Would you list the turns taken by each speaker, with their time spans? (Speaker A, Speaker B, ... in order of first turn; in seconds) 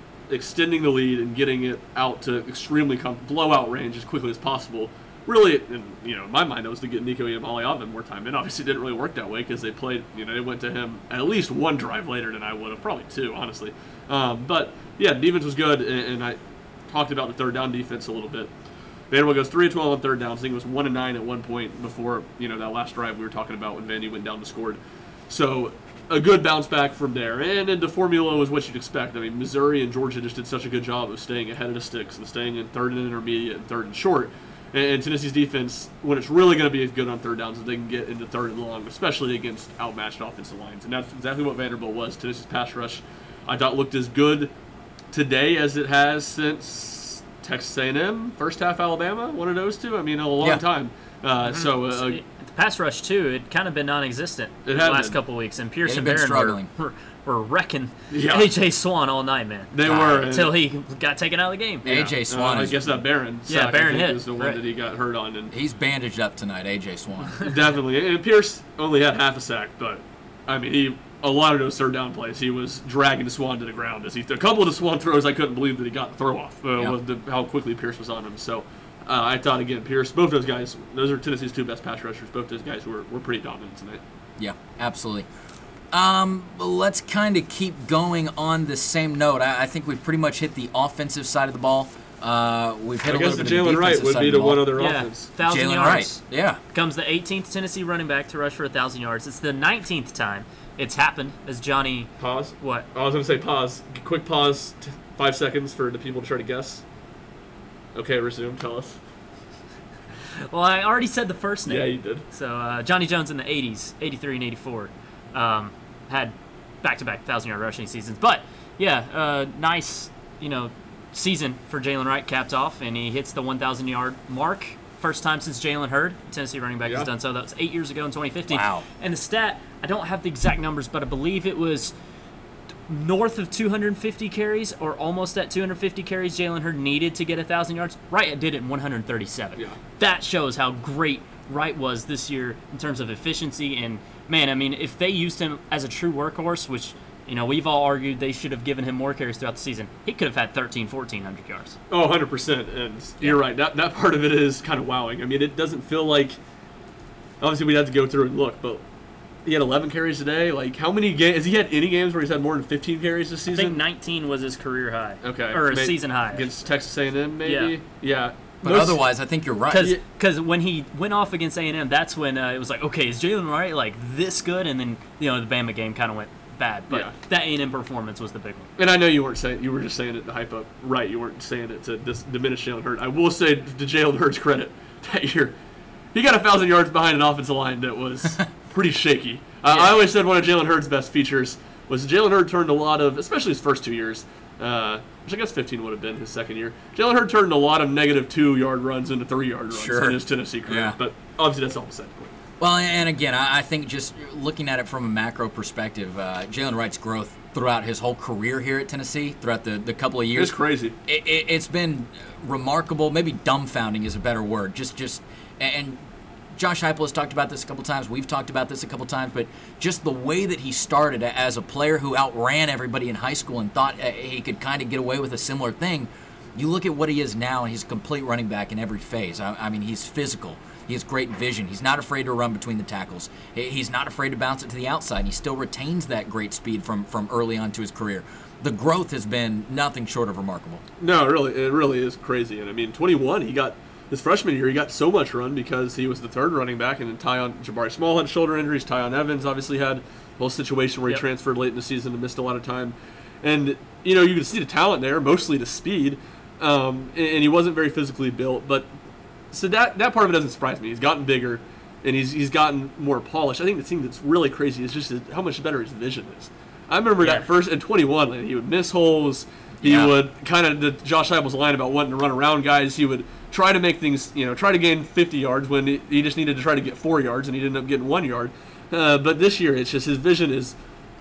Speaker A: 0.3-18.5, 19.1-24.8, 25.3-44.5, 45.1-52.2, 54.6-55.2, 58.1-58.5, 59.7-60.5, 61.8-65.5, 67.4-84.0, 93.1-95.3, 102.2-106.8, 107.9-109.0, 111.7-112.2, 151.9-156.4, 157.4-158.8, 159.4-163.8, 165.2-169.0, 178.8-185.5, 186.1-202.3, 210.3-210.9, 241.0-258.9, 259.5-280.7
Speaker B: 51.5-61.9, 63.5-64.6, 94.8-96.2, 96.7-102.8, 110.4-131.9, 132.9-151.8, 163.5-166.5, 167.4-167.7, 169.7-178.7, 267.2-267.4
Speaker C: 55.8-56.7, 61.9-63.0, 65.5-67.4, 84.4-85.3, 85.9-94.7, 95.4-96.6, 128.5-128.8, 168.6-169.9, 199.7-200.9, 202.6-210.5, 211.0-216.0, 216.5-240.8, 269.8-270.1